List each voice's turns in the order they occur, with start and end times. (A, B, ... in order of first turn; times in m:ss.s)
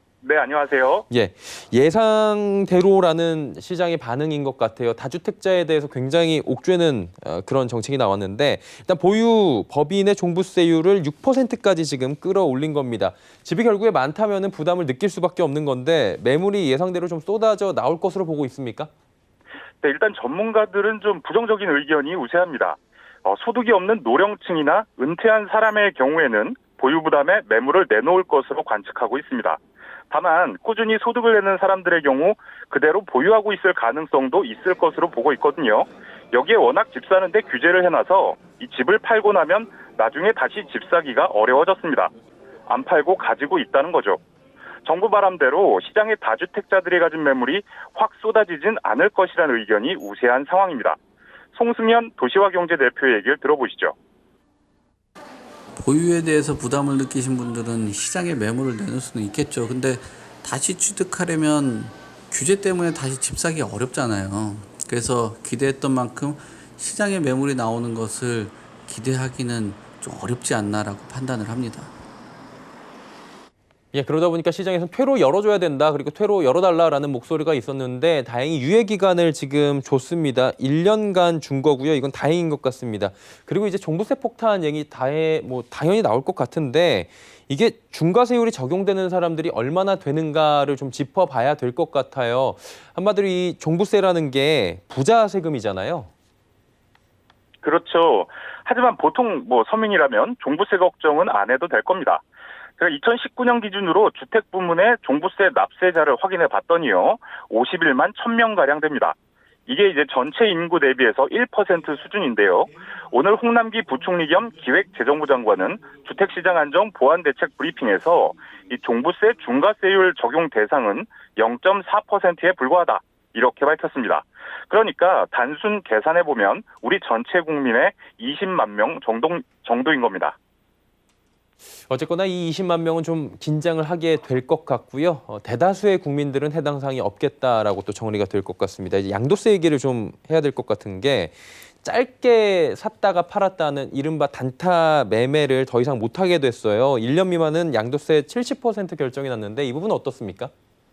0:00.2-0:01.1 A
0:01.1-0:18.9 B
0:19.8-0:42.1 A
0:42.7-0:44.2 A
0:44.8-0:51.0 A
0:51.5-0:54.0 A
0:55.8-1:11.9 C
1:13.9-1:36.1 B
1:37.6-1:42.2 A
1:42.8-1:49.2 A
1:49.7-2:10.4 A
2:11.9-2:30.5 B